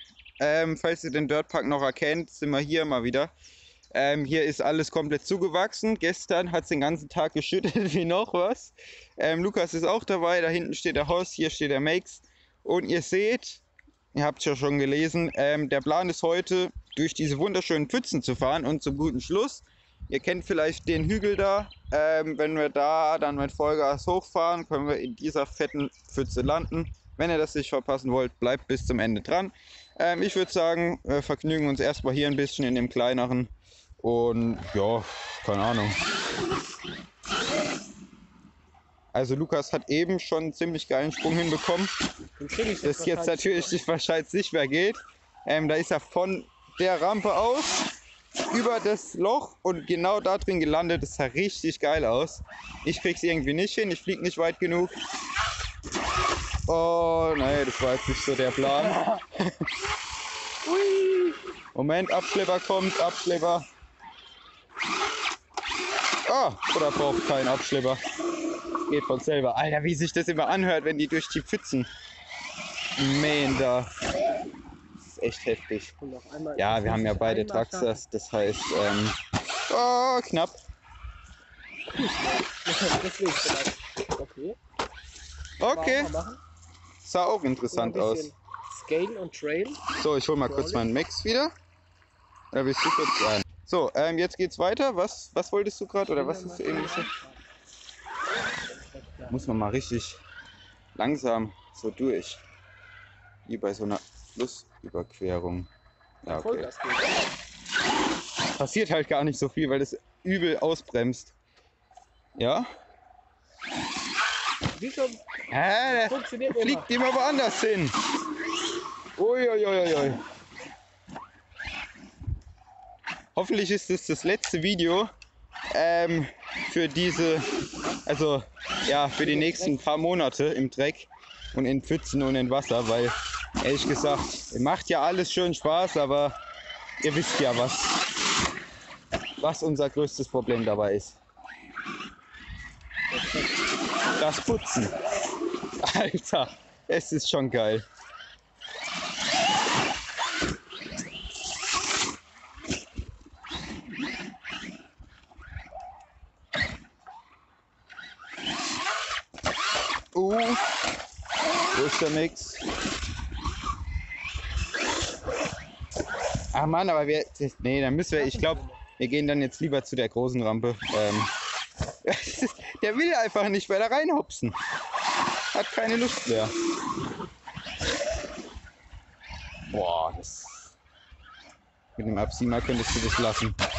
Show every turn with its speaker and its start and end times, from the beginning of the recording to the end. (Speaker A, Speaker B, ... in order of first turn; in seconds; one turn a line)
Speaker A: 0.4-3.3
Speaker A: 3.9-13.6
Speaker A: 14.1-33.5
Speaker A: 34.0-36.0
Speaker A: 39.1-41.9
Speaker B: 42.4-43.8
Speaker A: 42.8-47.8
Speaker A: 48.5-54.9
Speaker A: 56.7-59.5
Speaker B: 60.7-61.3
Speaker A: 61.7-63.7
Speaker A: 66.2-68.0
Speaker A: 68.9-71.9
Speaker A: 73.0-73.9
Speaker A: 75.0-75.9
Speaker B: 76.0-78.0
Speaker A: 76.6-79.2
Speaker A: 79.7-80.6
Speaker B: 81.9-84.6
Speaker A: 85.6-86.1
Speaker B: 85.6-86.4
Speaker A: 87.0-88.3
Speaker B: 87.7-89.8
Speaker A: 90.0-91.5
Speaker B: 90.4-90.9
Speaker A: 92.5-97.1
Speaker B: 96.1-97.4
Speaker B: 98.6-99.5
Speaker A: 99.3-100.2
Speaker A: 101.0-102.4
Speaker A: 103.5-105.7
Speaker A: 106.2-106.7
Speaker B: 106.3-107.2
Speaker A: 108.6-111.3
Speaker A: 112.4-112.7
Speaker B: 114.7-115.2
Speaker A: 115.5-118.0
Speaker B: 115.8-116.9
Speaker A: 119.2-120.2
Speaker A: 123.3-125.1
Speaker A: 125.7-127.5
Speaker A: 128.1-136.3
Speaker B: 129.2-129.8
Speaker A: 137.0-138.0
Speaker A: 139.4-141.2
Speaker B: 143.1-143.6
Speaker A: 144.2-144.9
Speaker A: 145.8-147.8
Speaker A: 160.1-160.6
Speaker A: 161.7-162.6
Speaker A: 166.5-171.3
Speaker B: 168.2-168.8
Speaker A: 172.0-174.6
Speaker A: 175.5-176.5
Speaker A: 179.7-180.7
Speaker A: 182.0-183.6